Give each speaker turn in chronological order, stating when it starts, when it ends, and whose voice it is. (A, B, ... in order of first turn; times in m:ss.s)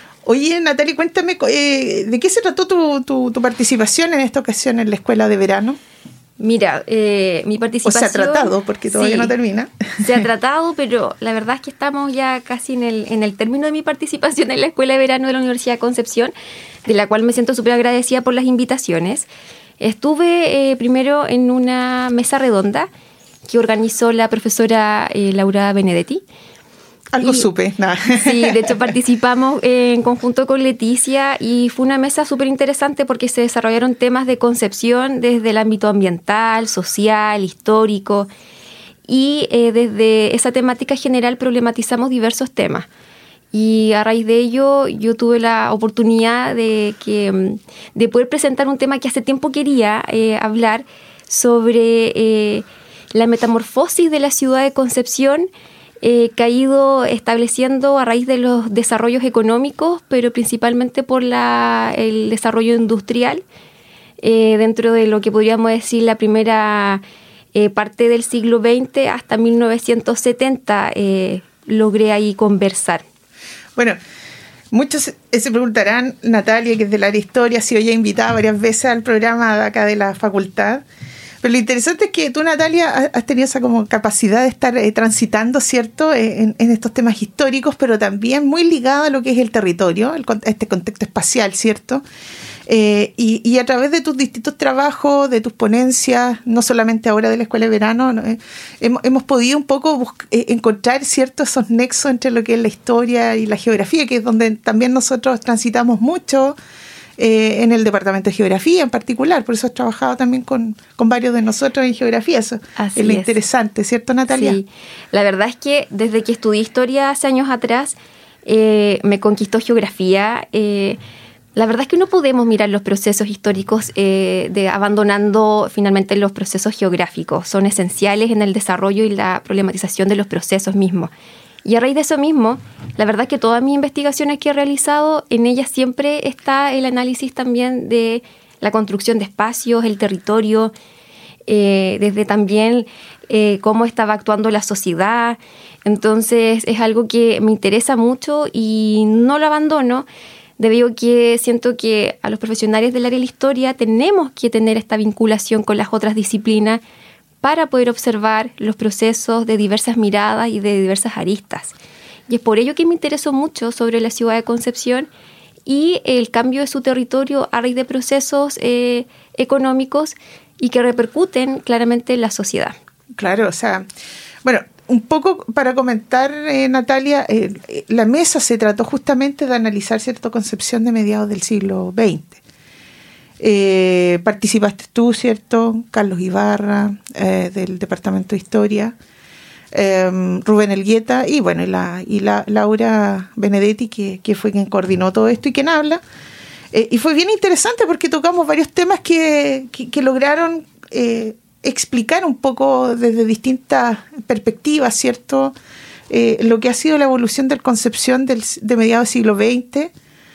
0:00.2-0:05.8 A
0:06.4-0:09.4 B
0:07.8-0:10.0 A
0:10.0-0:16.3 B
0:16.9-0:19.3 B
0:19.8-0:22.9 B
0:23.4-0:26.2 B
0:27.1-0:28.8 A
0:27.2-0:27.5 B
0:28.1-0:38.3 B
0:39.1-0:42.9 B
0:43.5-0:55.5 B
0:56.0-1:03.4 B
1:04.2-1:07.0 B
1:07.6-1:13.0 B
1:14.7-1:20.8 A
1:21.4-1:32.0 A
1:32.7-1:46.6 A
1:47.2-1:54.6 A
1:52.8-1:53.4 B
1:54.3-2:01.0 B
2:01.6-2:11.1 B
2:11.6-2:20.7 B
2:21.5-2:30.1 B
2:30.6-2:36.8 B
2:37.4-2:41.7 B
2:42.3-2:45.1 B
2:45.7-2:52.8 B
2:53.2-2:53.9 A
2:54.4-3:02.4 A
3:03.4-3:09.0 A
3:09.7-3:16.0 A
3:16.7-3:25.6 A
3:26.1-3:29.9 A